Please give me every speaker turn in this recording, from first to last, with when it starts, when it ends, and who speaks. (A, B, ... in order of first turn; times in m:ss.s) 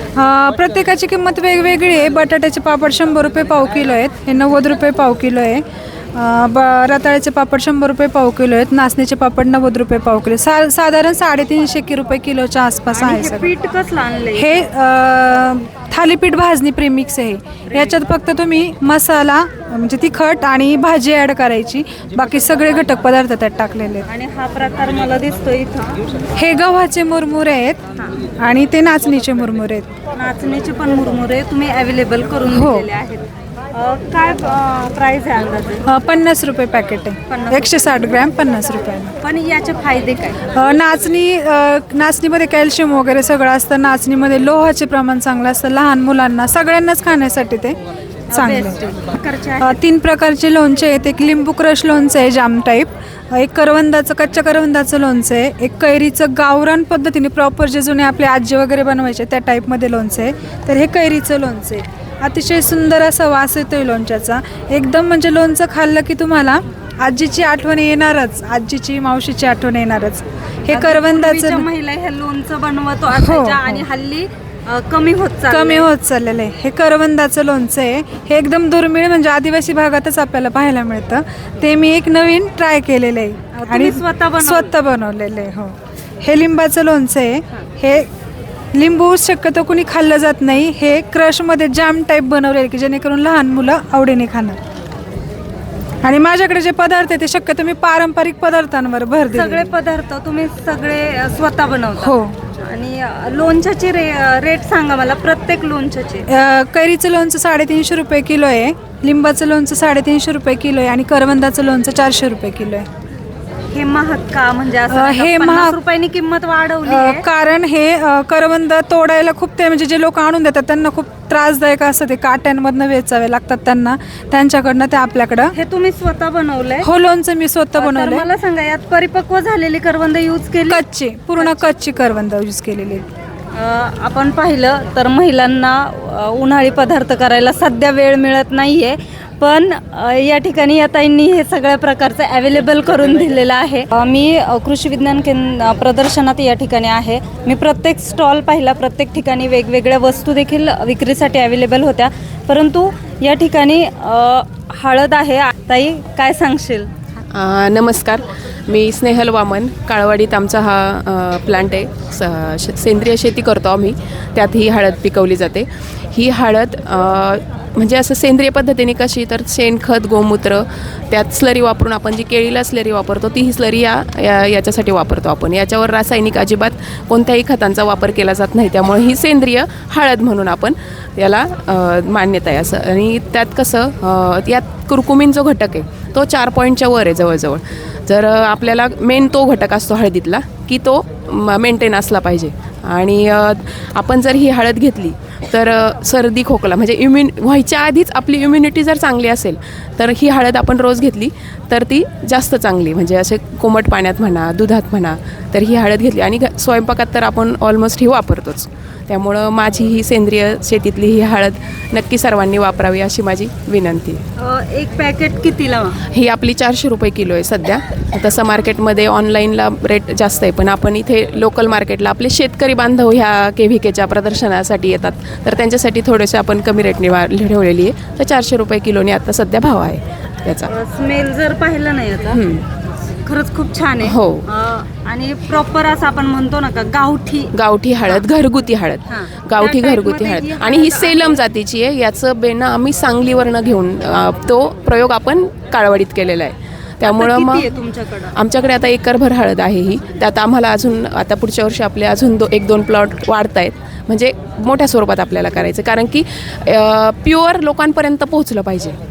0:00.2-0:13.5 A
0:12.9-0:14.6 B
0:14.4-0:24.1 A
0:24.1-0:26.0 B
0:26.4-0:27.8 A
0:28.4-0:29.9 A
0:30.2-0:35.8 B
0:32.5-0:32.9 A
0:35.9-0:39.2 A
0:37.3-0:37.9 B
0:39.2-0:40.4 B
0:40.5-0:47.8 A
0:48.3-0:49.8 B
0:48.3-0:48.8 A
0:49.6-1:11.7 A
1:10.7-1:15.9 B
1:13.2-1:13.8 A
1:15.5-1:28.1 A
1:23.5-1:24.8 B
1:28.7-1:34.6 A
1:36.0-1:39.7 A
1:39.3-1:46.2 B
1:42.0-1:42.4 A
1:46.3-1:52.9 A
1:53.7-1:57.2 B
1:54.9-1:55.8 A
1:56.8-2:05.5 A
2:05.5-2:06.9 B
2:06.8-2:08.2 A
2:07.8-2:10.8 B
2:10.7-2:13.1 A
2:11.4-2:11.7 B
2:13.6-2:36.9 B
2:37.3-3:34.2 C
3:34.4-3:36.0 B
3:36.1-3:50.7 C
3:50.7-3:52.4 B
3:52.3-3:52.6 C
3:53.3-3:57.5 B
3:54.0-3:54.4 C
3:57.5-4:07.7 C
3:59.1-4:01.4 B
4:07.0-4:08.3 B
4:08.4-4:19.0 C